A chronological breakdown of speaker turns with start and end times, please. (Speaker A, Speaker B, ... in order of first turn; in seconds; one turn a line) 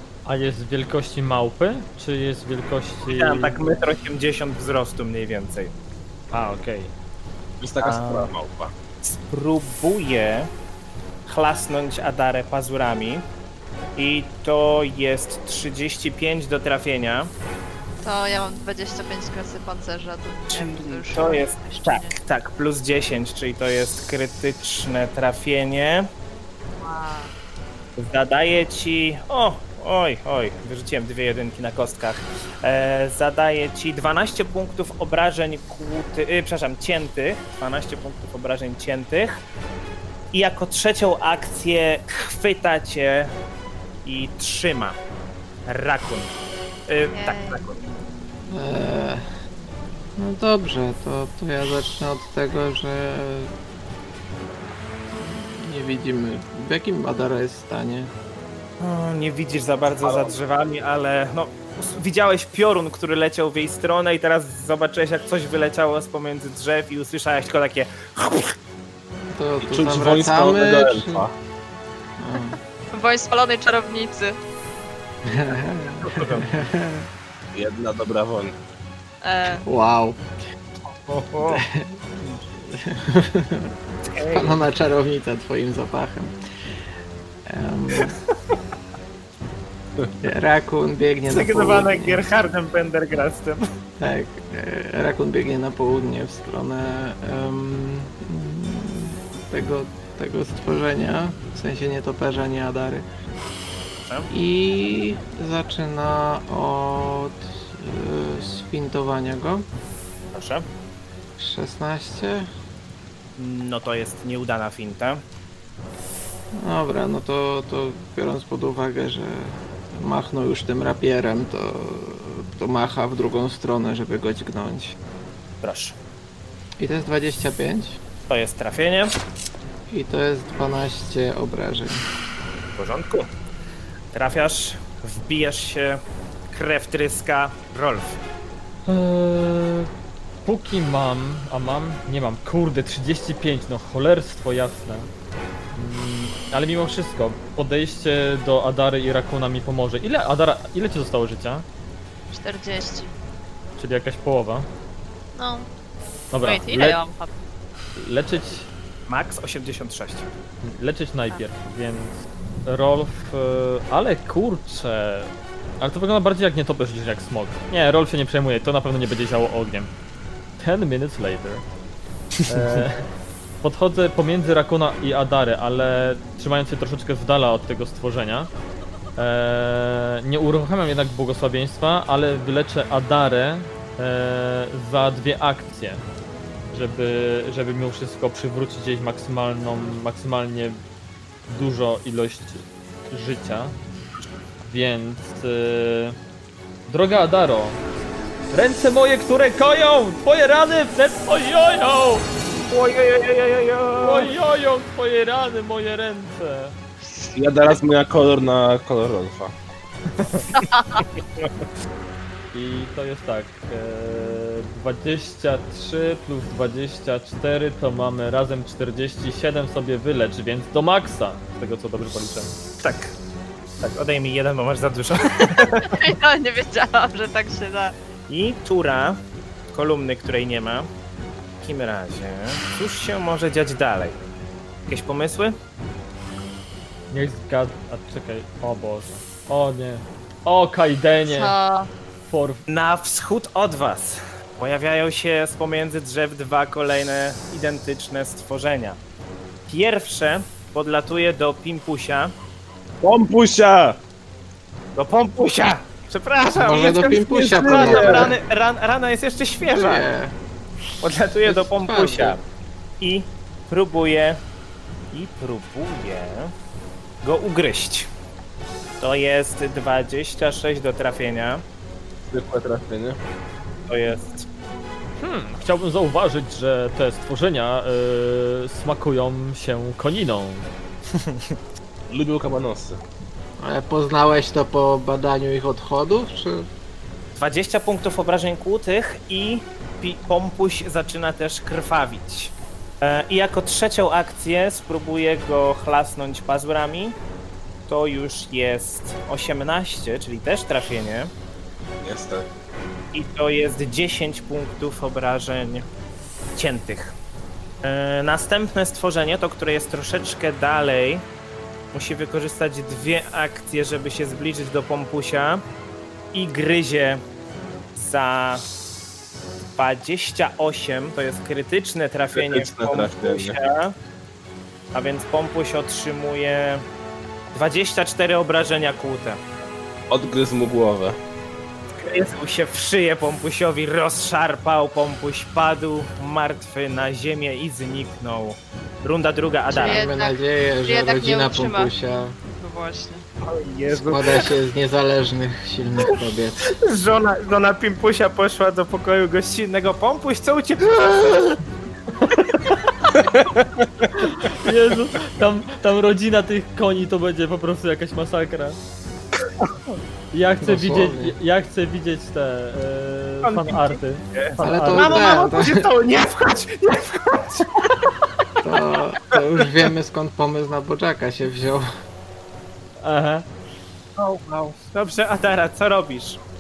Speaker A: 0.3-3.6
Speaker B: 3.0-5.7
Speaker A: 6.3-6.9
Speaker C: 7.6-8.7
Speaker B: 7.8-8.3
Speaker B: 9.0-10.5
Speaker B: 11.3-13.2
Speaker B: 14.0-17.3
Speaker D: 18.0-22.2
Speaker B: 20.5-26.1
Speaker D: 26.8-27.3
Speaker B: 28.0-39.4
Speaker B: 40.3-43.3
Speaker B: 44.0-45.0
Speaker B: 45.7-46.3
Speaker B: 46.9-47.8
Speaker D: 47.1-47.7
Speaker E: 48.5-49.3
Speaker E: 50.2-53.5
Speaker E: 55.1-58.1
Speaker B: 58.8-68.5
Speaker C: 60.0-60.3
Speaker E: 69.3-71.3
Speaker C: 69.6-71.3
Speaker E: 72.2-72.6
Speaker D: 72.9-74.4
Speaker E: 75.2-77.1
Speaker B: 76.0-76.5
Speaker C: 77.5-78.5
Speaker D: 79.2-79.6
Speaker E: 79.7-80.2
Speaker B: 80.9-81.7
Speaker E: 81.5-82.0
Speaker E: 82.5-83.7
Speaker B: 84.1-84.6
Speaker E: 84.3-86.3
Speaker E: 87.5-88.2
Speaker E: 90.2-92.2
Speaker B: 91.3-93.6
Speaker E: 94.0-103.1
Speaker E: 104.3-109.7
Speaker B: 110.3-110.7
Speaker E: 111.4-112.5
Speaker B: 113.4-115.2
Speaker E: 116.6-125.0
Speaker B: 125.6-126.0
Speaker E: 126.8-128.0
Speaker B: 128.3-129.2
Speaker E: 129.9-132.1
Speaker B: 132.8-133.3
Speaker B: 134.1-138.2
Speaker A: 138.9-139.9
Speaker A: 140.4-145.1
Speaker A: 145.7-151.7
Speaker D: 152.3-153.1
Speaker A: 153.8-154.7
Speaker D: 155.3-155.7
Speaker A: 156.3-157.0
Speaker D: 156.4-157.3
Speaker A: 158.0-158.7
Speaker B: 159.1-160.3
Speaker A: 160.6-169.9
Speaker A: 170.6-171.7
Speaker A: 172.5-173.1
Speaker A: 173.6-178.5
Speaker A: 179.2-186.0
Speaker A: 186.7-190.8
Speaker A: 191.5-193.8
Speaker A: 194.6-196.2
Speaker A: 196.9-197.8
Speaker A: 198.5-202.3
Speaker B: 202.7-204.3
Speaker A: 204.0-206.8
Speaker C: 207.3-209.5
Speaker D: 210.5-211.0
Speaker A: 212.5-222.5
Speaker B: 222.8-223.1
Speaker B: 223.8-226.0
Speaker D: 225.4-227.9
Speaker B: 228.3-229.2
Speaker B: 229.7-230.9
Speaker B: 231.6-234.2
Speaker B: 234.9-235.6
Speaker A: 237.1-241.6
Speaker D: 241.2-241.9
Speaker A: 242.3-242.7
Speaker B: 242.7-249.0
Speaker B: 249.7-252.3
Speaker C: 253.0-254.0
Speaker B: 255.0-260.1
Speaker E: 256.6-258.4
Speaker C: 257.1-258.3
Speaker E: 259.6-260.4
Speaker B: 261.0-262.4
Speaker E: 261.4-262.4
Speaker B: 263.0-264.4
Speaker B: 265.1-266.5
Speaker B: 267.2-268.1
Speaker B: 269.0-271.6
Speaker C: 272.3-273.2
Speaker B: 273.9-274.4
Speaker A: 275.2-280.7
Speaker B: 281.1-281.6
Speaker C: 282.1-283.0
Speaker E: 283.6-286.7
Speaker B: 287.4-297.2
Speaker B: 297.9-301.3
Speaker C: 302.0-302.5
Speaker B: 303.1-305.9
Speaker B: 306.6-307.2
Speaker B: 307.8-311.2
Speaker B: 311.9-315.6
Speaker B: 316.3-317.2
Speaker B: 317.9-318.7
Speaker B: 319.8-324.0
Speaker C: 322.3-323.6
Speaker B: 324.9-326.9
Speaker B: 327.5-329.4
Speaker C: 330.1-331.2
Speaker B: 332.0-340.0
Speaker E: 339.7-342.4
Speaker D: 339.7-341.9
Speaker D: 342.5-343.2
Speaker B: 343.4-344.5
Speaker E: 343.9-346.7
Speaker B: 346.7-351.6
Speaker A: 354.2-358.8
Speaker A: 360.3-365.3
Speaker E: 360.6-361.4
Speaker B: 363.4-368.1
Speaker E: 364.6-365.9
Speaker E: 368.6-371.9
Speaker A: 373.0-373.5
Speaker B: 374.2-376.4